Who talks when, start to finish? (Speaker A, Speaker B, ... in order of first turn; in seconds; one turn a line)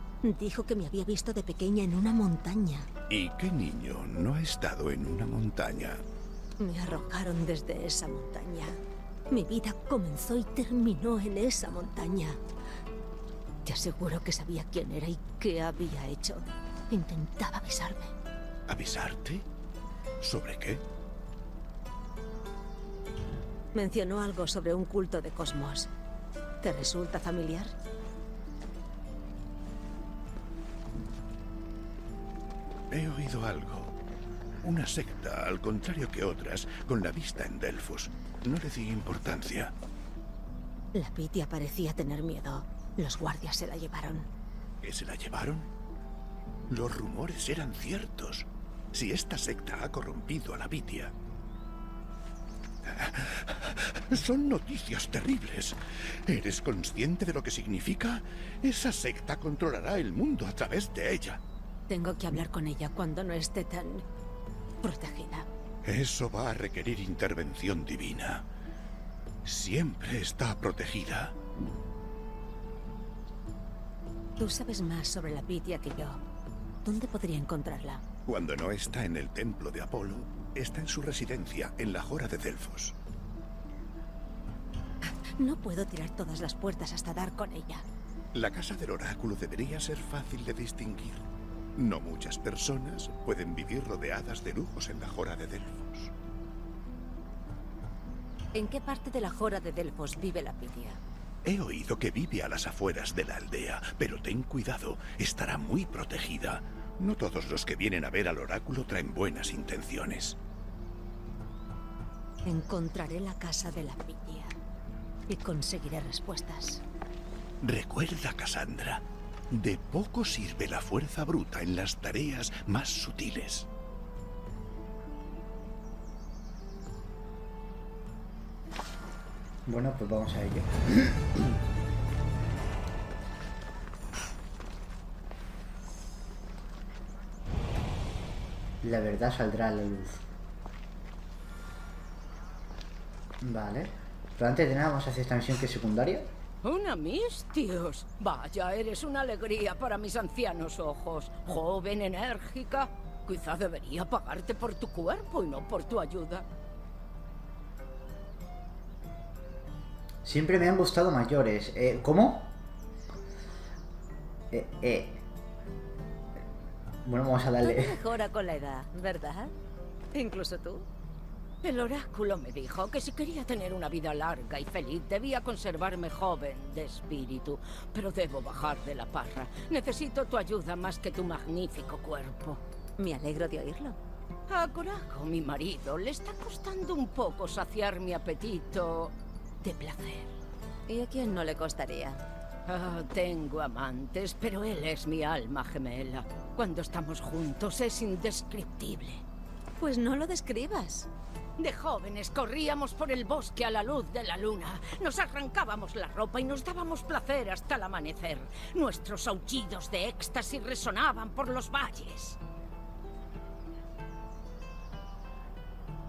Speaker A: 0.2-2.9
Speaker B: 3.1-6.0
Speaker A: 6.6-8.8
Speaker A: 9.3-12.4
Speaker A: 13.6-18.1
Speaker B: 18.7-19.4
Speaker B: 20.2-20.8
Speaker A: 23.7-25.9
Speaker A: 26.6-27.7
Speaker B: 32.9-33.9
Speaker B: 34.6-39.7
Speaker A: 40.9-44.3
Speaker B: 44.8-45.7
Speaker B: 46.7-51.1
Speaker B: 52.8-61.4
Speaker A: 61.9-64.0
Speaker A: 64.8-65.5
Speaker B: 65.8-68.5
Speaker B: 69.4-71.3
Speaker A: 74.4-76.2
Speaker A: 76.8-78.0
Speaker B: 78.3-83.0
Speaker A: 85.0-87.8
Speaker B: 88.3-96.1
Speaker A: 98.5-101.0
Speaker B: 101.4-110.4
Speaker A: 112.5-114.6
Speaker A: 115.3-116.8
Speaker B: 117.6-123.7
Speaker C: 129.7-131.6
Speaker C: 138.8-140.2
Speaker C: 143.4-146.3
Speaker D: 146.6-156.5
Speaker C: 160.2-162.5
Speaker C: 164.5-165.2
Speaker C: 167.0-167.9
Speaker A: 167.6-169.5
Speaker A: 170.1-170.9
Speaker D: 171.6-182.6
Speaker A: 183.0-184.0
Speaker D: 184.5-189.2
Speaker A: 189.6-190.3
Speaker A: 190.9-192.2
Speaker D: 192.7-199.2
Speaker A: 199.8-201.1
Speaker D: 201.6-212.4